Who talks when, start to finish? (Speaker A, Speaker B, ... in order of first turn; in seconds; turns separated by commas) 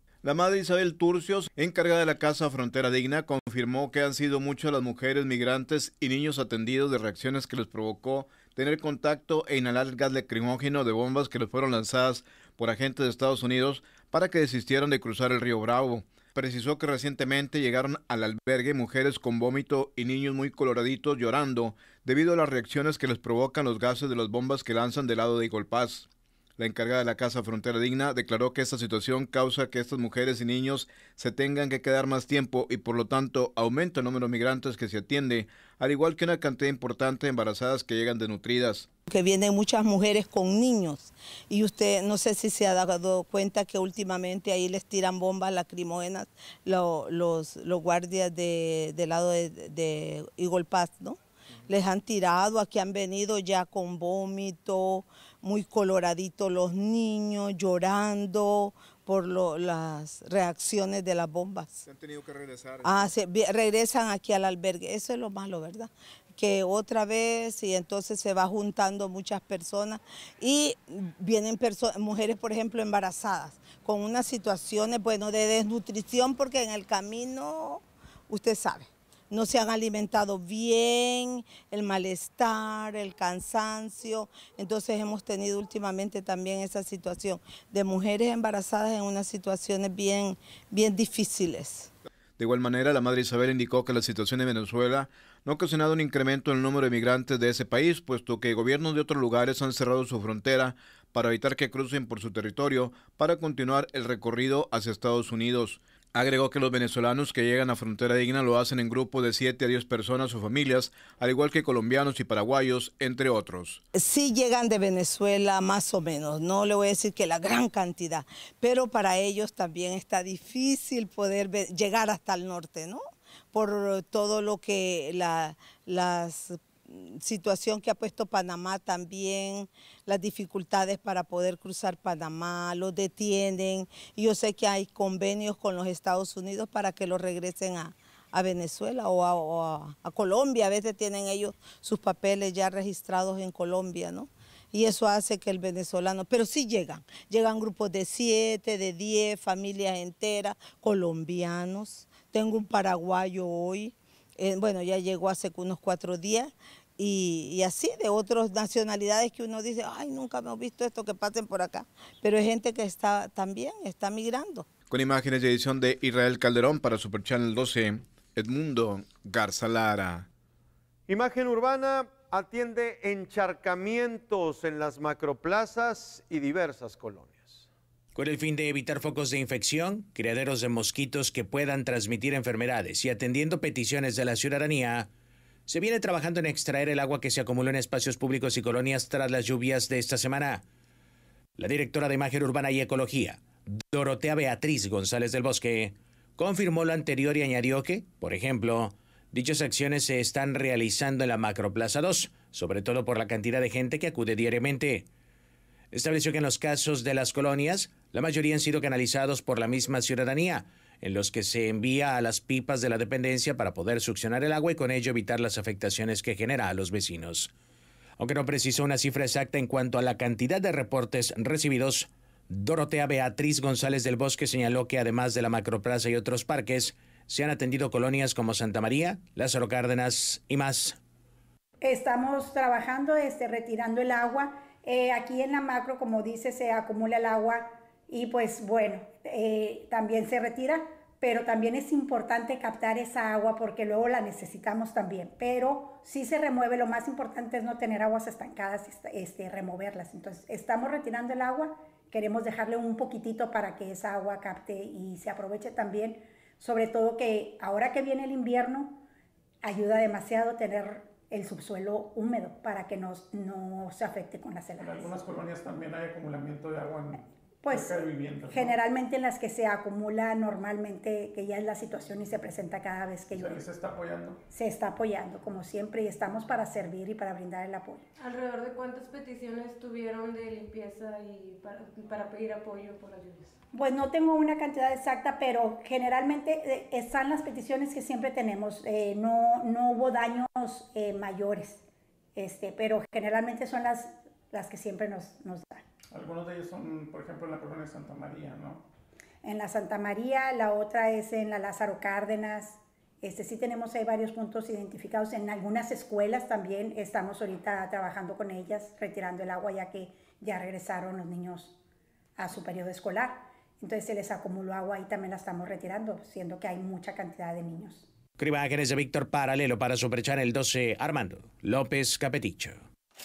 Speaker A: 0.2-38.9, Speaker B: 39.1-61.8, Speaker A: 61.8-63.1, Speaker B: 62.8-91.9, Speaker A: 92.4-113.8, Speaker B: 113.9-164.7, Speaker A: 164.9-170.3, Speaker C: 171.1-177.7, Speaker D: 178.1-185.1, Speaker D: 185.7-190.6, Speaker D: 191.6-205.1, Speaker D: 205.9-217.5, Speaker D: 218.2-231.0, Speaker E: 231.8-259.0, Speaker E: 259.6-265.2, Speaker F: 264.8-268.8, Speaker E: 267.6-273.7, Speaker F: 273.3-274.4, Speaker E: 274.5-278.1, Speaker G: 278.2-283.5, Speaker E: 283.7-295.8, Speaker F: 296.1-298.8, Speaker E: 299.4-311.8, Speaker E: 312.4-318.1, Speaker D: 318.4-322.8